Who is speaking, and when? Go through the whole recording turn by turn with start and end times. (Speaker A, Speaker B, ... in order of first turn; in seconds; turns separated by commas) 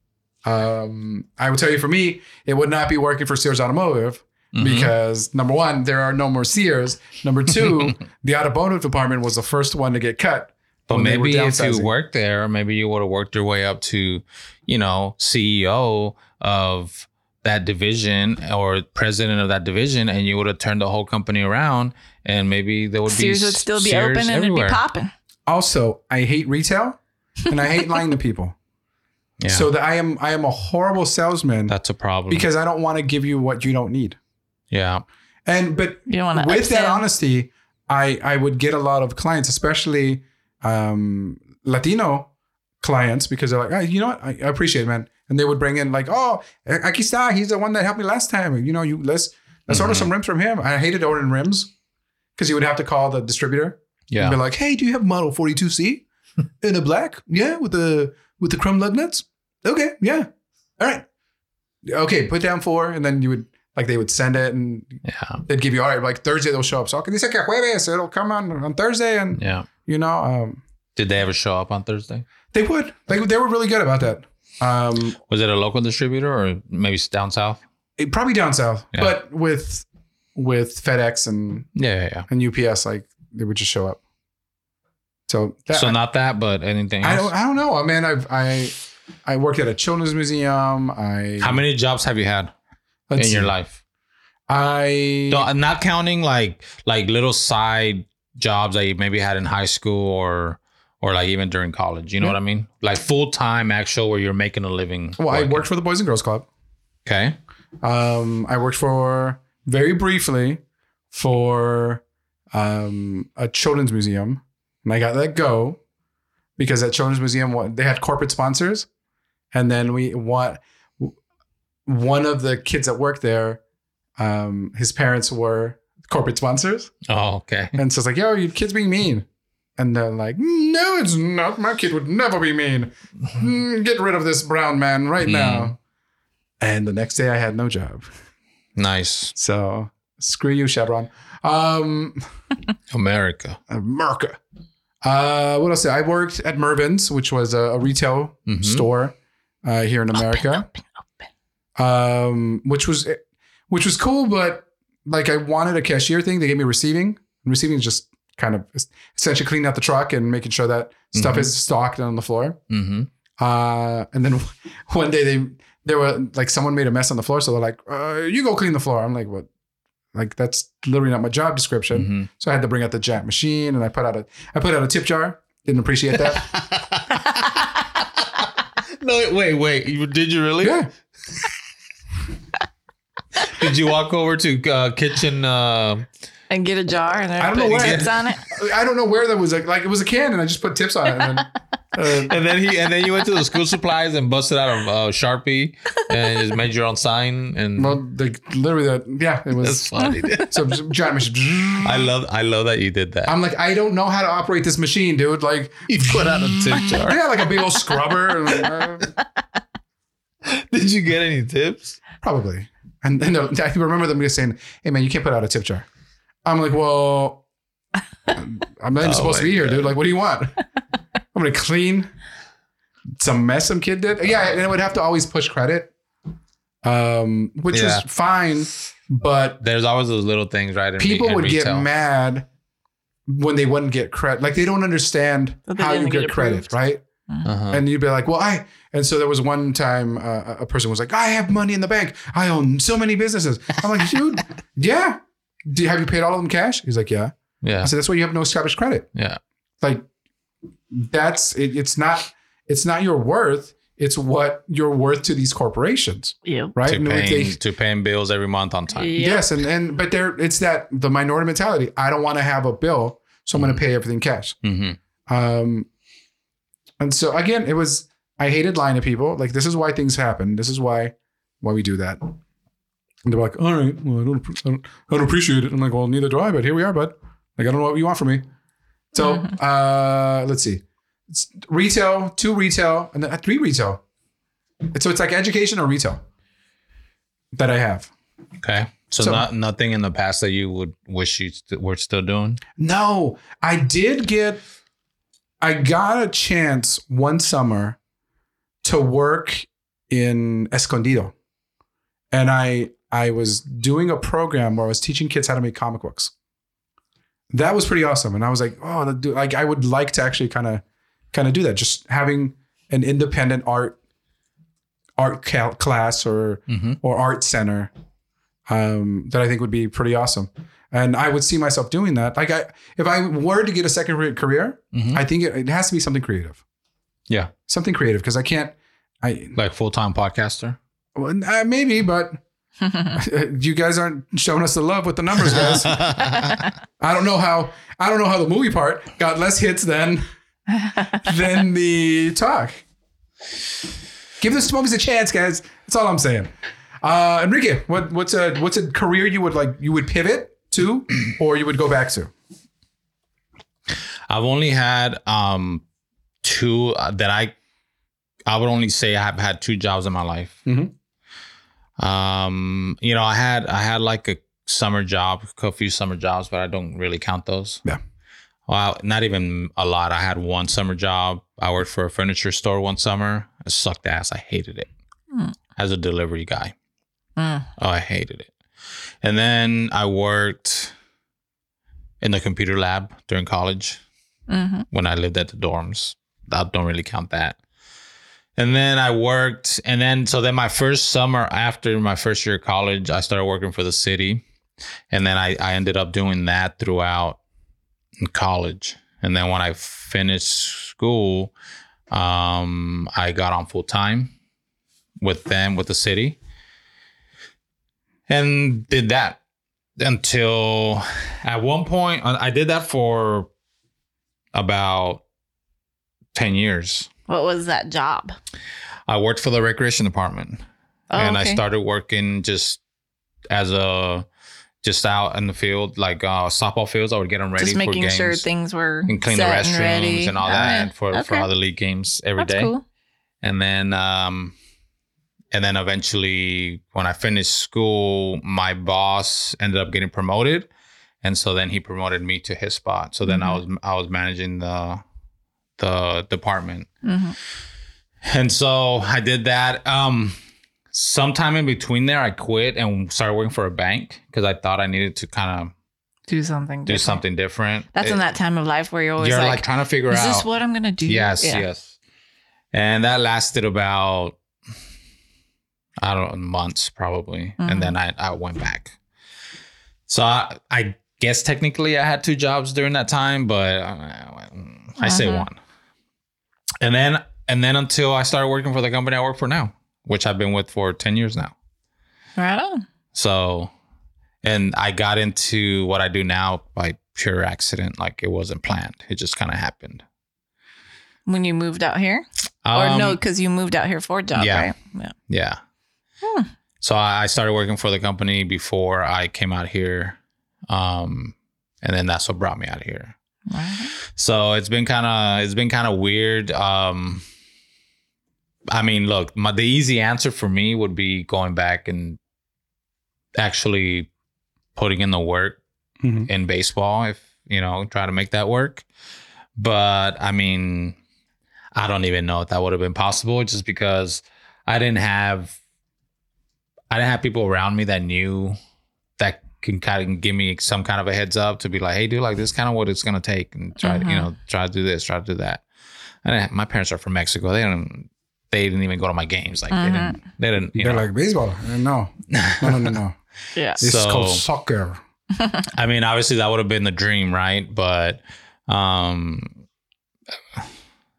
Speaker A: 0.4-11.9, Speaker B: 4.5-4.9, Speaker B: 10.9-24.8, Speaker C: 23.1-25.1, Speaker A: 25.5-28.5, Speaker B: 29.4-29.7, Speaker A: 29.5-31.7, Speaker B: 31.7-32.5, Speaker A: 32.3-34.2, Speaker B: 34.7-35.0, Speaker A: 35.5-42.3, Speaker C: 36.1-37.0, Speaker A: 42.8-51.7, Speaker B: 49.7-50.1, Speaker A: 52.4-56.0, Speaker B: 54.1-54.4, Speaker A: 56.6-61.0, Speaker A: 61.9-70.6, Speaker B: 65.0-65.4, Speaker B: 69.4-69.7, Speaker B: 71.0-72.2, Speaker A: 72.5-75.2, Speaker B: 75.3-77.6, Speaker A: 78.0-81.7, Speaker B: 81.8-82.3, Speaker A: 82.3-84.0, Speaker A: 85.3-86.0, Speaker B: 85.7-87.3, Speaker A: 87.0-91.6, Speaker B: 91.4-92.5, Speaker A: 93.1-93.5, Speaker B: 93.2-93.8, Speaker A: 94.5-95.5, Speaker B: 95.3-105.7, Speaker A: 105.2-106.5, Speaker B: 107.0-107.4, Speaker A: 107.8-110.6, Speaker A: 111.1-112.0, Speaker A: 112.5-115.8, Speaker A: 116.6-118.9, Speaker A: 119.5-121.1, Speaker A: 121.8-123.6, Speaker A: 124.2-126.9, Speaker B: 127.1-127.8, Speaker A: 127.7-129.2, Speaker A: 129.8-135.8, Speaker B: 135.2-135.7, Speaker A: 136.6-138.1, Speaker B: 138.8-139.3, Speaker A: 139.3-142.2, Speaker B: 142.9-143.6, Speaker A: 143.7-144.4, Speaker A: 145.0-150.7, Speaker B: 148.5-148.8, Speaker C: 150.3-150.8, Speaker A: 151.8-162.6, Speaker B: 161.1-161.5, Speaker B: 162.7-163.1, Speaker A: 163.4-169.5, Speaker A: 170.1-176.5, Speaker B: 171.9-172.3, Speaker B: 176.4-177.8, Speaker B: 179.0-180.8, Speaker A: 180.6-180.9, Speaker B: 183.4-186.1, Speaker C: 186.5-188.4, Speaker A: 187.4-192.3, Speaker B: 187.7-188.1, Speaker B: 192.3-198.0, Speaker A: 197.8-202.1, Speaker B: 199.6-200.8, Speaker B: 201.8-203.3, Speaker A: 203.2-206.3, Speaker B: 205.9-207.2, Speaker A: 206.8-209.1, Speaker B: 210.4-212.0, Speaker A: 212.2-215.8, Speaker A: 216.4-217.4, Speaker A: 218.3-220.6, Speaker B: 219.0-219.9, Speaker A: 221.3-222.1, Speaker A: 223.2-225.9, Speaker A: 226.8-229.6, Speaker B: 227.7-228.0, Speaker B: 229.6-231.9, Speaker A: 231.0-232.5, Speaker A: 233.3-237.0, Speaker C: 235.7-236.7, Speaker B: 237.4-237.8, Speaker A: 237.7-249.1, Speaker B: 247.6-247.9, Speaker A: 250.9-257.6, Speaker C: 256.4-256.7, Speaker B: 256.9-259.1, Speaker C: 258.9-259.4, Speaker A: 259.1-264.6, Speaker B: 263.5-263.8, Speaker B: 264.6-265.0, Speaker A: 265.3-265.9, Speaker A: 267.0-272.3, Speaker A: 273.2-278.4, Speaker A: 279.1-284.0, Speaker C: 279.2-279.5, Speaker A: 284.9-286.2, Speaker A: 287.5-288.1, Speaker B: 288.6-292.6, Speaker A: 289.2-289.4, Speaker A: 292.8-294.6, Speaker A: 295.6-298.0, Speaker A: 298.8-301.3, Speaker A: 302.3-306.3, Speaker A: 307.5-314.0, Speaker A: 315.2-317.9, Speaker B: 316.7-317.0, Speaker A: 318.7-326.6, Speaker B: 324.9-325.2, Speaker A: 327.7-329.6, Speaker B: 329.6-330.8, Speaker A: 331.1-332.4, Speaker C: 332.8-333.2, Speaker A: 333.1-336.1, Speaker B: 335.6-336.6, Speaker A: 337.0-340.2, Speaker C: 340.8-341.1, Speaker A: 341.1-342.8, Speaker A: 344.4-352.3, Speaker B: 354.3-355.8, Speaker B: 356.4-357.5, Speaker B: 358.4-360.6, Speaker A: 360.6-360.9, Speaker B: 362.0-367.8, Speaker B: 368.7-374.9, Speaker B: 375.8-376.7, Speaker C: 377.4-377.7, Speaker B: 377.8-378.5, Speaker B: 379.2-380.9, Speaker B: 382.2-384.0, Speaker C: 384.5-384.9, Speaker B: 384.9-387.6, Speaker B: 388.6-394.4, Speaker B: 395.1-397.4, Speaker B: 398.2-401.5, Speaker B: 402.1-404.3, Speaker B: 405.2-406.4, Speaker B: 408.3-409.4, Speaker B: 410.0-413.5, Speaker B: 414.5-415.2, Speaker B: 416.3-417.1, Speaker C: 417.3-418.3, Speaker B: 419.1-420.6, Speaker C: 421.1-421.6, Speaker B: 421.1-422.8, Speaker B: 423.5-424.2, Speaker B: 424.8-428.4, Speaker C: 427.6-431.5, Speaker B: 429.1-432.7, Speaker C: 432.4-432.8, Speaker B: 433.4-434.5, Speaker B: 435.5-440.7, Speaker B: 441.2-445.0, Speaker C: 443.2-443.6, Speaker B: 445.8-446.9, Speaker C: 447.0-447.4, Speaker B: 448.2-450.4, Speaker B: 450.9-455.7, Speaker C: 456.3-457.2, Speaker B: 456.9-458.2, Speaker C: 457.9-461.6, Speaker B: 459.2-460.5, Speaker B: 461.1-461.9, Speaker B: 462.7-464.4, Speaker B: 466.0-468.9, Speaker C: 467.6-467.9, Speaker B: 470.1-475.6, Speaker C: 475.0-475.5, Speaker B: 476.8-481.5, Speaker C: 482.4-482.8, Speaker B: 483.1-483.7, Speaker B: 484.4-490.0, Speaker C: 491.2-495.1, Speaker B: 492.6-493.2, Speaker B: 494.3-494.7, Speaker B: 495.3-495.6, Speaker C: 496.2-496.5, Speaker B: 496.8-500.2, Speaker B: 500.7-503.1, Speaker C: 503.5-503.9, Speaker B: 504.1-507.2, Speaker B: 508.7-512.2, Speaker B: 513.4-514.1, Speaker B: 514.8-515.6, Speaker A: 516.0-516.3, Speaker B: 516.3-518.8, Speaker B: 519.6-521.0, Speaker B: 521.7-525.5, Speaker B: 526.9-528.6, Speaker B: 529.2-535.6, Speaker C: 533.8-534.3, Speaker B: 536.2-541.0, Speaker C: 539.7-540.2, Speaker A: 540.8-543.2, Speaker B: 542.3-542.9, Speaker C: 543.5-543.8, Speaker A: 543.8-545.0, Speaker B: 543.8-544.4, Speaker B: 545.7-549.6